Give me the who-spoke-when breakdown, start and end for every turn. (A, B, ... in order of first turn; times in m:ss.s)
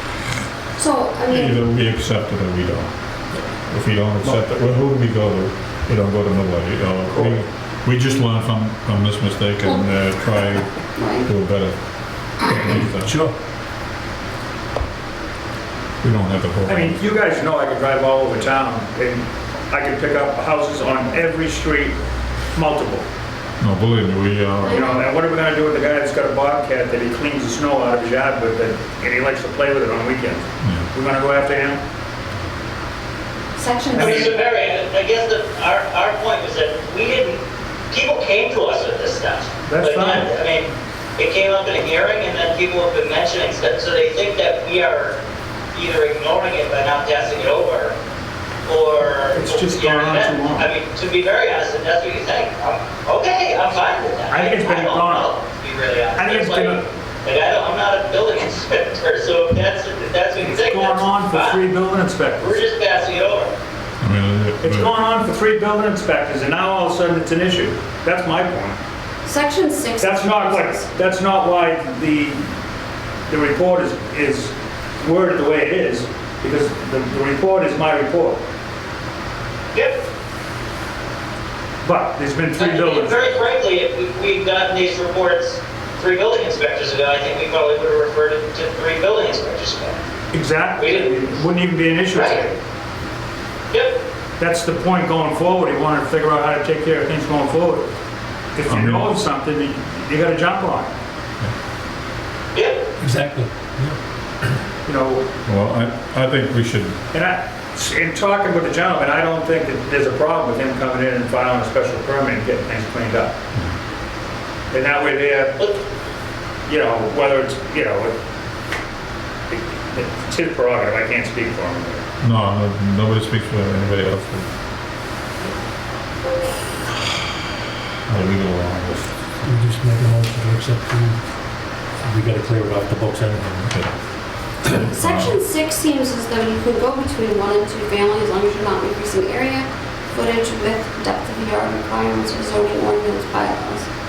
0:00.8-0:01.6 A
0:01.3-0:13.1 B
0:10.9-0:11.3 A
0:12.6-0:13.3 C
0:16.0-0:17.0 B
0:16.6-0:22.0 D
0:22.5-0:23.0 D
0:23.6-0:24.8 B
0:24.6-0:25.1 A
0:24.7-0:31.8 D
0:30.6-0:30.9 B
0:33.6-0:34.4 A
0:33.9-0:34.3 D
0:33.9-0:37.4 E
0:37.9-0:45.2 E
0:39.6-0:40.4 D
0:45.7-0:47.9 E
0:48.6-1:01.7 E
0:49.3-0:50.7 D
0:54.3-0:55.3 D
0:56.2-0:56.8 D
1:00.4-1:02.6 D
1:02.4-1:03.5 E
1:04.0-1:04.9 B
1:04.6-1:08.8 D
1:09.2-1:10.9 A
1:10.0-1:12.5 D
1:13.3-1:18.4 D
1:21.8-1:23.2 D
1:22.6-1:30.0 E
1:30.3-1:32.6 D
1:30.8-1:31.3 E
1:32.1-1:32.4 E
1:33.7-1:34.0 E
1:34.4-1:37.9 D
1:38.6-1:40.9 D
1:38.7-1:39.1 B
1:42.5-1:42.8 E
1:43.0-1:44.0 C
1:44.8-1:45.3 D
1:45.4-1:47.0 B
1:47.1-1:53.3 D
1:54.7-1:55.6 D
1:56.6-1:58.2 D
1:59.5-2:02.0 D
2:02.2-2:04.5 B
2:08.1-2:09.1 B
2:09.4-2:11.2 C
2:12.0-2:13.8 C
2:14.7-2:23.9 A
2:14.8-2:15.4 B